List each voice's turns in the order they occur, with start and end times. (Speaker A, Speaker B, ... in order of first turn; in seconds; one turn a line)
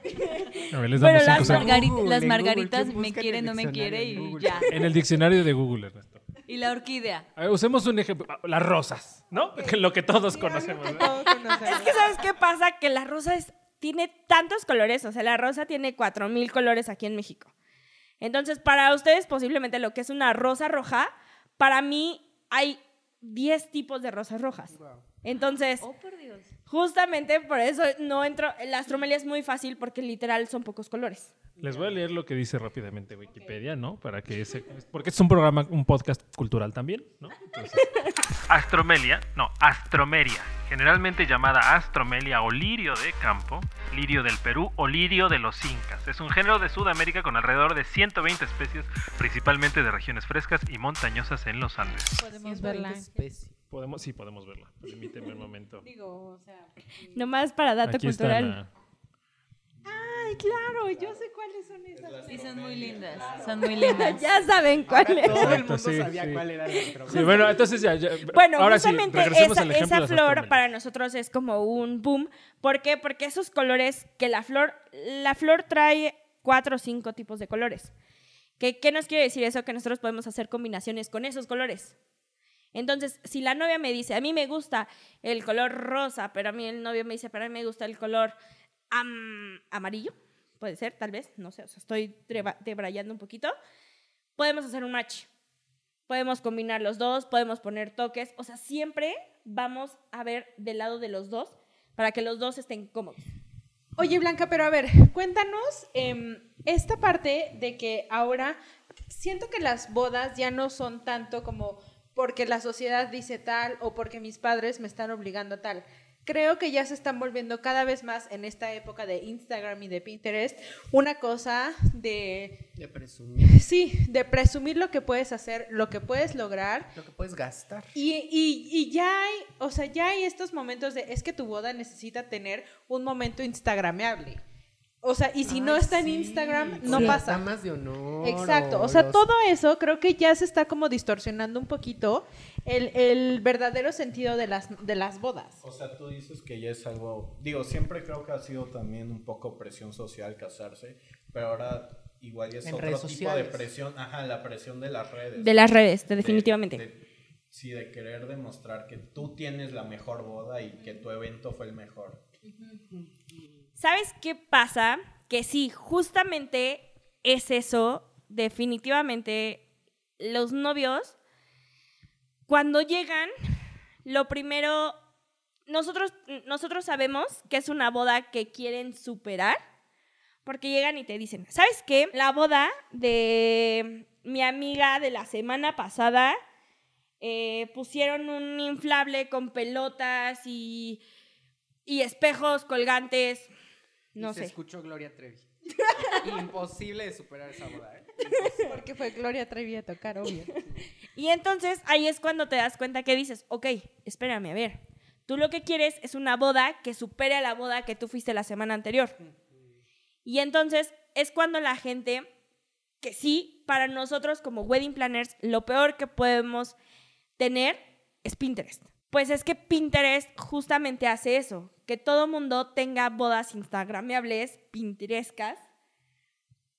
Speaker A: 0.1-1.7
Speaker B: 0.7-1.8
Speaker C: 1.3-4.7
Speaker D: 1.3-4.7
Speaker B: 4.7-6.2
Speaker D: 6.5-7.3
Speaker B: 7.4-11.2
Speaker E: 10.2-12.2
Speaker A: 11.6-17.5
Speaker A: 18.2-25.9
Speaker C: 24.7-25.1
Speaker D: 25.8-26.5
Speaker A: 26.7-31.3
Speaker B: 31.6-37.9
Speaker C: 31.6-32.1
Speaker B: 38.5-52.2
Speaker E: 52.2-53.2
Speaker C: 52.3-53.6
Speaker B: 53.7-55.9
Speaker E: 55.8-57.2
Speaker A: 57.1-58.6
Speaker B: 57.8-58.7
Speaker E: 59.9-64.2
Speaker F: 61.9-64.4
Speaker D: 62.3-64.3
Speaker A: 63.8-65.6
Speaker C: 64.9-67.7
Speaker B: 65.2-66.5
Speaker B: 67.0-70.7
Speaker A: 68.3-77.9
Speaker A: 78.6-82.0
Speaker A: 82.7-88.3
Speaker A: 88.9-93.5
Speaker A: 94.4-95.3
Speaker A: 96.1-103.2
Speaker E: 104.0-122.6
Speaker C: 122.8-123.6
Speaker E: 123.4-126.9
Speaker C: 127.0-128.0
Speaker E: 128.0-134.4
Speaker E: 135.0-137.5
Speaker C: 135.4-139.2
Speaker A: 136.9-137.1
Speaker E: 138.2-145.6
Speaker F: 145.6-162.2
Speaker C: 152.6-153.7
Speaker A: 155.4-156.8
Speaker A: 163.8-169.6
Speaker A: 170.2-171.2
Speaker A: 172.5-173.3
Speaker A: 174.1-174.9
Speaker A: 175.7-179.6
Speaker A: 180.4-186.4
Speaker A: 187.2-191.0
Speaker A: 191.9-193.5
Speaker A: 194.2-194.5
Speaker C: 194.2-195.5
Speaker C: 196.0-198.7
Speaker E: 198.7-200.5
Speaker A: 201.2-209.2
Speaker C: 209.2-209.7
Speaker A: 210.3-212.3
Speaker A: 213.0-216.8
Speaker A: 217.4-225.6